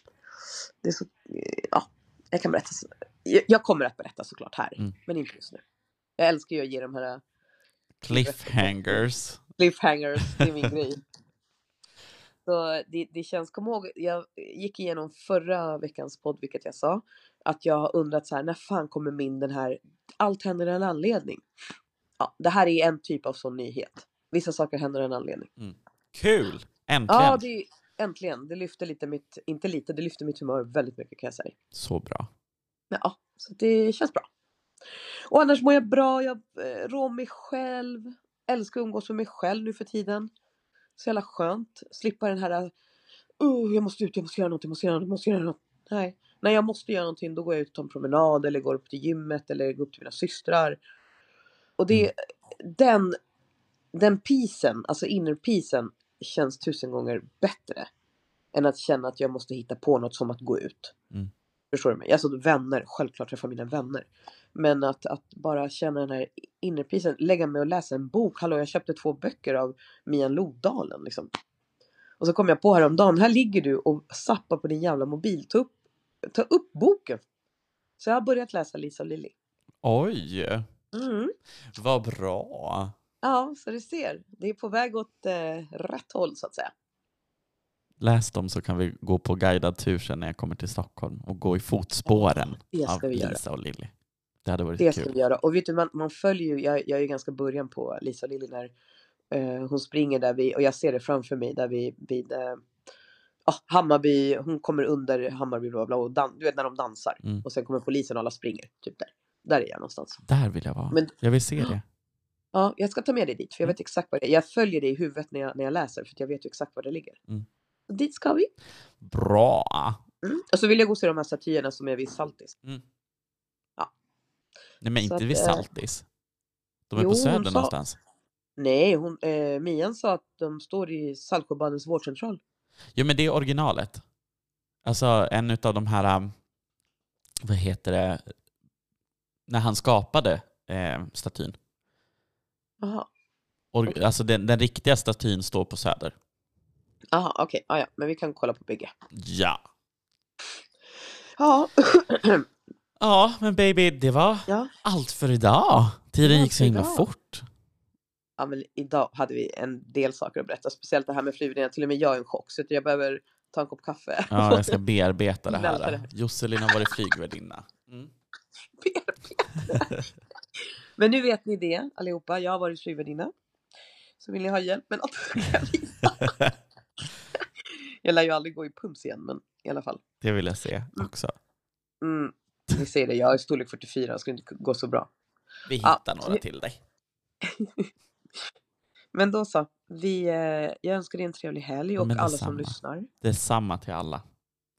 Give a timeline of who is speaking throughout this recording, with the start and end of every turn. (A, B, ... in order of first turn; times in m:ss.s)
0:00.8-0:05.6 A
0:06.2-0:07.2 A
0:08.0-0:09.4 B
0:08.1-0:09.1 A
0:09.6-0:11.0 A
0:12.5-0:21.4 A
0:22.2-0:25.5 A
0:25.6-0:27.4 B
0:27.1-0:31.6 A
0:31.7-0:32.3 B
0:32.9-0:34.3 A
0:35.3-0:40.3 A
0:41.0-0:42.7 A
0:43.4-0:50.8 A
0:51.8-0:53.2 A
0:53.9-0:57.9 A
0:58.5-1:00.9 A
1:01.7-1:11.3 A
1:12.2-1:15.7 A
1:16.3-1:17.2 A
1:18.0-1:19.3 A
1:19.8-1:20.6 B
1:20.9-1:21.3 A
1:21.7-1:22.9 B
1:23.2-1:26.7 A
1:28.0-1:33.9 B
1:32.1-1:33.4 A
1:34.4-1:35.1 B
1:34.8-1:38.7 A
1:39.3-1:42.6 A
1:43.5-1:50.2 A
1:50.2-1:51.8 B
1:52.5-1:57.2 A
1:57.9-1:58.5 A
1:59.0-2:00.0 B
2:00.2-2:02.6 A
2:04.8-2:06.1 B
2:05.0-2:05.7 A
2:06.9-2:08.0 B
2:07.0-2:07.7 A
2:08.6-2:12.4 A
2:13.0-2:14.0 B
2:14.8-2:16.3 B
2:17.4-2:18.3 B
2:19.5-2:21.6 B
2:22.8-2:23.1 A
2:23.7-2:26.2 B
2:27.1-2:28.9 A
2:29.2-2:29.6 B
2:31.4-2:32.4 A
2:33.0-2:37.5 B
2:36.2-2:37.1 A
2:38.4-2:44.8 A
2:44.3-2:48.1 B
2:45.5-2:46.1 A
2:48.8-2:50.0 A
2:51.0-2:53.3 A
2:54.2-2:56.3 A
2:56.2-2:56.5 B
2:58.0-3:00.0 A
3:00.2-3:01.4 B
3:02.0-3:05.1 A
3:05.7-3:06.8 B
3:05.8-3:06.4 A
3:07.5-3:07.9 A
3:09.1-3:13.1 A
3:12.0-3:14.2 B